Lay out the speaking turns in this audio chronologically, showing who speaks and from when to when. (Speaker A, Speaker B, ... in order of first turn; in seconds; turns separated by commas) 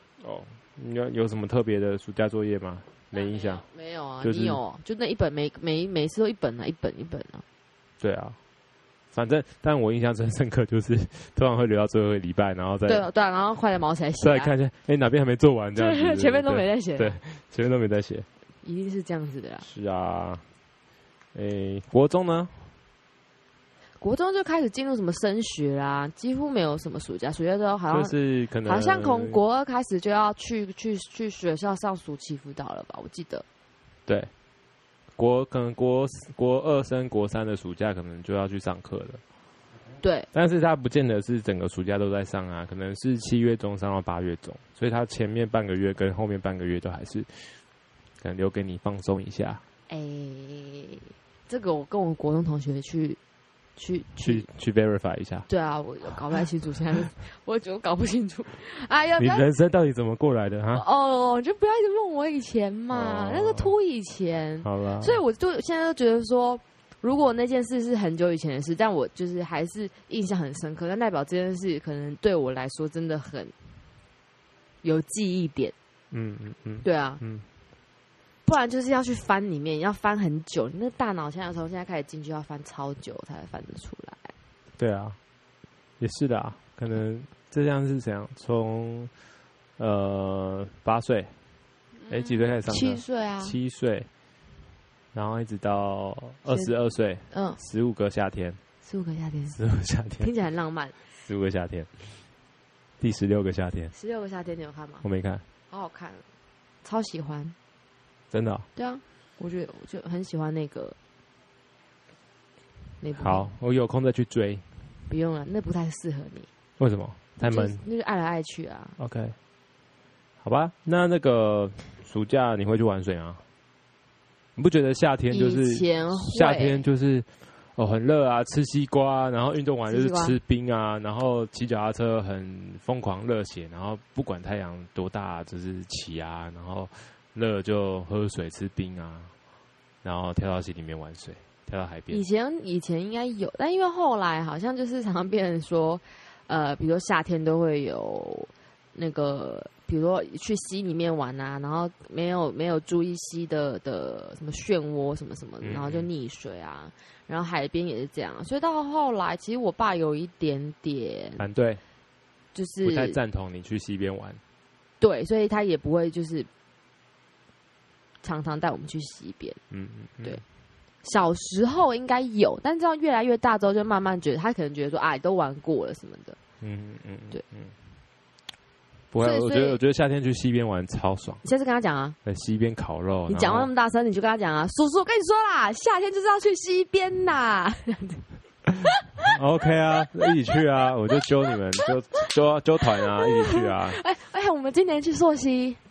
Speaker A: 0.2-3.6, Speaker B: 3.1-7.4, Speaker A: 4.2-4.6, Speaker A: 8.0-8.4, Speaker A: 9.1-13.1, Speaker B: 12.9-14.5, Speaker A: 14.2-18.3, Speaker B: 15.8-17.2, Speaker B: 18.6-19.6, Speaker A: 19.6-20.4, Speaker A: 21.3-22.6, Speaker B: 24.0-33.4, Speaker A: 27.9-29.4, Speaker A: 35.2-39.2, Speaker B: 40.0-40.3, Speaker A: 40.3-47.5, Speaker A: 48.2-49.6, Speaker B: 49.9-53.2, Speaker B: 53.8-54.5, Speaker A: 54.2-55.5, Speaker B: 55.5-59.5, Speaker A: 59.2-60.8, Speaker B: 60.7-73.5, Speaker A: 62.9-63.7, Speaker A: 64.6-65.2, Speaker B: 74.8-75.7, Speaker A: 76.1-77.4, Speaker B: 76.8-77.2, Speaker B: 78.5-84.3, Speaker A: 84.8-85.2, Speaker A: 86.0-89.1, Speaker A: 89.8-91.3, Speaker B: 92.0-93.6, Speaker A: 92.1-94.1, Speaker A: 95.1-98.6, Speaker B: 97.3-97.6, Speaker B: 98.8-99.6, Speaker A: 99.5-100.3, Speaker B: 100.2-101.0, Speaker A: 101.2-102.0, Speaker A: 103.0-103.9, Speaker B: 103.9-105.0, Speaker A: 105.0-105.4, Speaker B: 105.7-106.2, Speaker B: 106.8-107.5, Speaker A: 108.3-108.7, Speaker B: 108.8-111.0, Speaker B: 113.0-113.5, Speaker A: 113.2-114.7, Speaker B: 115.1-116.5, Speaker A: 116.8-117.8, Speaker B: 117.4-119.0, Speaker A: 119.0-119.3, Speaker A: 120.4-123.4, Speaker A: 124.5-139.3, Speaker B: 125.3-126.8, Speaker B: 129.9-130.4, Speaker A: 140.0-142.2, Speaker B: 142.1-161.4, Speaker A: 155.6-156.1, Speaker A: 161.4-161.8, Speaker B: 162.5-163.2, Speaker A: 162.8-164.4, Speaker B: 165.0-166.5, Speaker B: 168.2-169.6, Speaker A: 169.7-170.4, Speaker B: 171.0-176.4, Speaker A: 176.6-177.7, Speaker A: 179.1-181.4, Speaker B: 179.2-179.8, Speaker B: 181.4-182.2, Speaker A: 182.2-183.7, Speaker B: 183.3-188.2, Speaker A: 189.2-194.0, Speaker B: 193.2-195.8